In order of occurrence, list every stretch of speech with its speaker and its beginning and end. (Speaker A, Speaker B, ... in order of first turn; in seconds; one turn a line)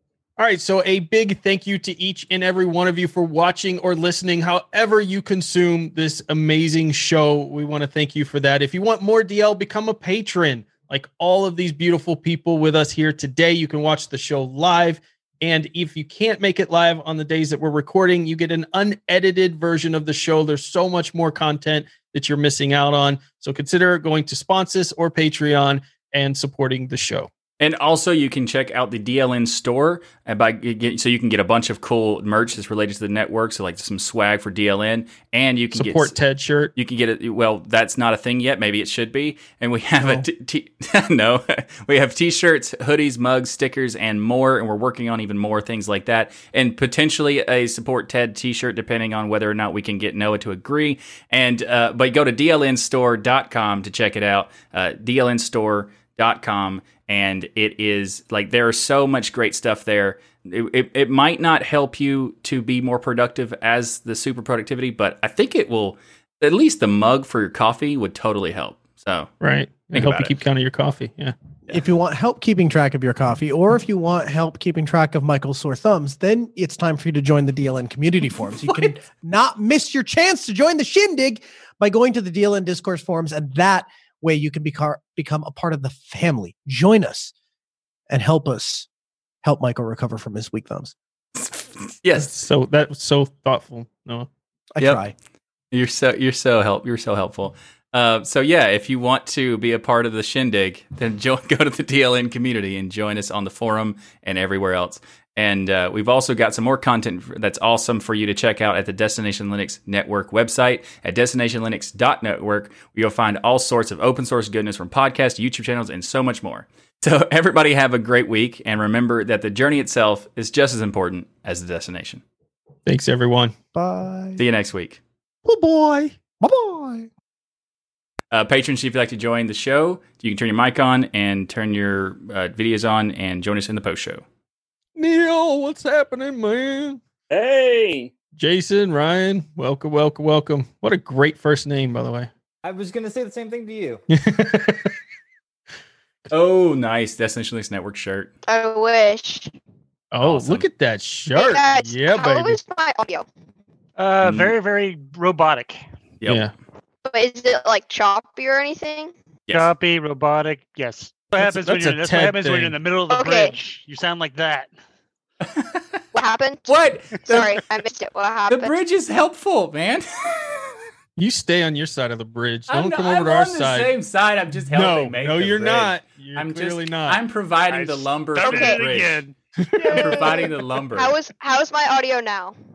Speaker A: 0.4-27.3
Speaker B: 27.6-36.1
Speaker A: 35.7-36.7
Speaker B: 36.8-69.3
Speaker C: 40.0-40.2
Speaker A: 69.4-71.3
Speaker B: 69.9-70.3
Speaker C: 71.7-87.3
Speaker B: 78.6-78.9
Speaker C: 88.1-88.9
Speaker C: 89.4-90.9
Speaker B: 91.3-92.3
Speaker A: 92.2-94.3
Speaker C: 94.8-95.1
Speaker B: 95.7-122.2
Speaker A: 122.9-123.5
Speaker C: 123.8-124.4
Speaker B: 124.4-125.0
Speaker C: 125.5-127.1
Speaker B: 128.3-134.2
Speaker A: 135.0-137.0
Speaker D: 137.3-138.1
Speaker A: 138.4-142.3
Speaker D: 142.6-144.0
Speaker A: 144.1-145.0
Speaker B: 146.3-148.3
Speaker E: 148.5-149.6
Speaker A: 150.1-152.6
Speaker B: 150.2-150.7
Speaker E: 151.3-153.3
Speaker F: 154.0-155.8
Speaker B: 154.2-154.5
Speaker A: 156.3-156.5
Speaker E: 157.1-159.1
Speaker F: 159.5-164.7
Speaker A: 161.4-162.8
Speaker E: 163.1-163.6
Speaker B: 165.5-166.0
Speaker E: 166.1-166.7
Speaker B: 166.7-167.6
Speaker E: 167.3-168.8
Speaker B: 168.5-170.7
Speaker A: 171.2-173.9
Speaker B: 172.7-179.2
Speaker A: 174.5-177.2
Speaker F: 177.7-180.5
Speaker E: 178.4-178.8
Speaker A: 179.6-180.0
Speaker E: 179.8-180.3
Speaker B: 179.8-181.2
Speaker E: 180.9-182.5